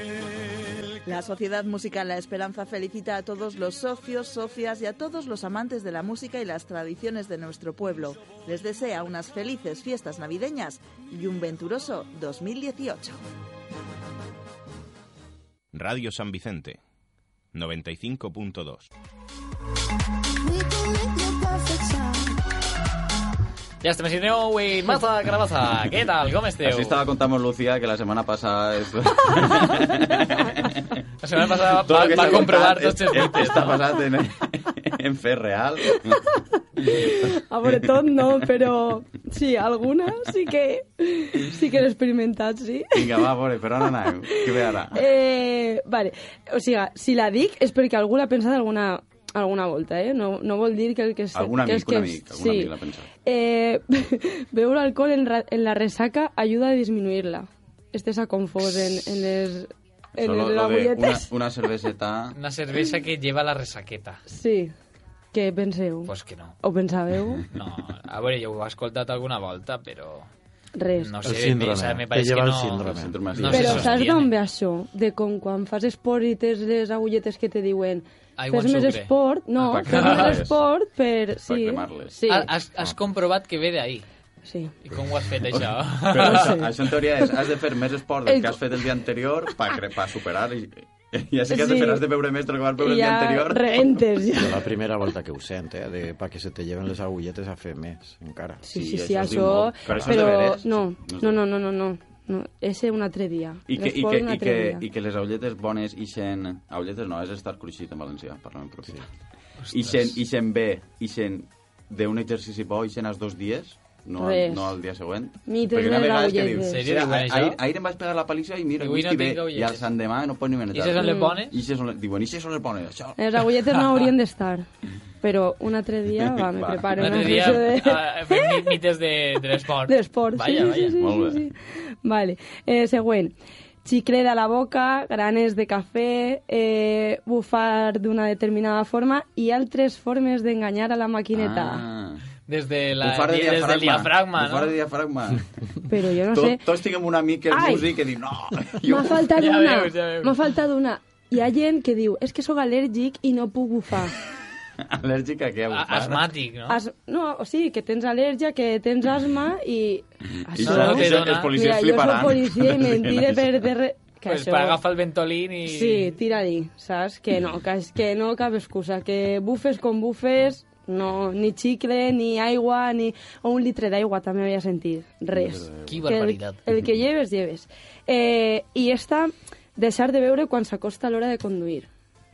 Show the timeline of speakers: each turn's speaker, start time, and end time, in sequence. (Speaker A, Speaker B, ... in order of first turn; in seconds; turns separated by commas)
Speaker A: 1.0-13.2, Speaker B: 15.7-16.8, Speaker B: 17.5-18.9, Speaker C: 21.0-22.1, Speaker D: 23.8-27.0, Speaker E: 26.6-30.9, Speaker D: 31.2-33.8, Speaker E: 31.6-36.2, Speaker C: 36.8-43.2, Speaker E: 36.9-37.3, Speaker E: 42.9-45.0, Speaker C: 44.9-52.7, Speaker E: 51.3-53.1, Speaker C: 53.2-61.3, Speaker E: 60.2-62.4, Speaker D: 62.3-64.2, Speaker C: 64.3-64.7, Speaker C: 65.3-67.4, Speaker D: 66.0-66.6, Speaker D: 67.5-70.3, Speaker C: 70.8-71.1, Speaker D: 71.0-74.3, Speaker F: 71.2-74.0, Speaker E: 72.8-74.0, Speaker C: 73.5-82.5, Speaker D: 78.4-79.1, Speaker E: 79.6-80.6, Speaker D: 79.9-80.4, Speaker E: 81.4-82.2, Speaker D: 82.3-84.0, Speaker C: 84.4-84.7, Speaker D: 84.8-86.5, Speaker E: 86.0-94.0, Speaker C: 86.2-86.7, Speaker C: 88.2-88.8, Speaker C: 91.5-92.0, Speaker C: 92.8-94.6, Speaker F: 94.3-98.6, Speaker C: 98.6-104.8, Speaker E: 98.7-101.4, Speaker F: 99.9-100.3, Speaker E: 103.7-109.0, Speaker D: 109.6-110.2, Speaker E: 109.7-123.5, Speaker C: 114.2-114.8, Speaker C: 115.5-116.8, Speaker D: 116.7-117.6, Speaker D: 118.8-119.8, Speaker D: 120.7-121.5, Speaker C: 121.0-121.4, Speaker C: 123.2-124.7, Speaker C: 125.2-128.8, Speaker E: 126.5-127.6, Speaker D: 127.0-131.0, Speaker C: 129.8-141.8, Speaker E: 131.0-131.4, Speaker E: 141.3-142.2, Speaker D: 142.5-144.7, Speaker E: 143.0-145.4, Speaker C: 145.9-146.6, Speaker E: 146.3-149.3, Speaker C: 147.5-147.8, Speaker C: 148.8-154.1, Speaker D: 149.3-150.3, Speaker E: 154.9-156.3, Speaker D: 155.7-156.8, Speaker C: 156.7-164.8, Speaker E: 160.5-163.7, Speaker D: 160.6-161.5, Speaker D: 164.2-166.1, Speaker C: 165.6-181.9, Speaker E: 175.3-176.0, Speaker D: 175.9-176.6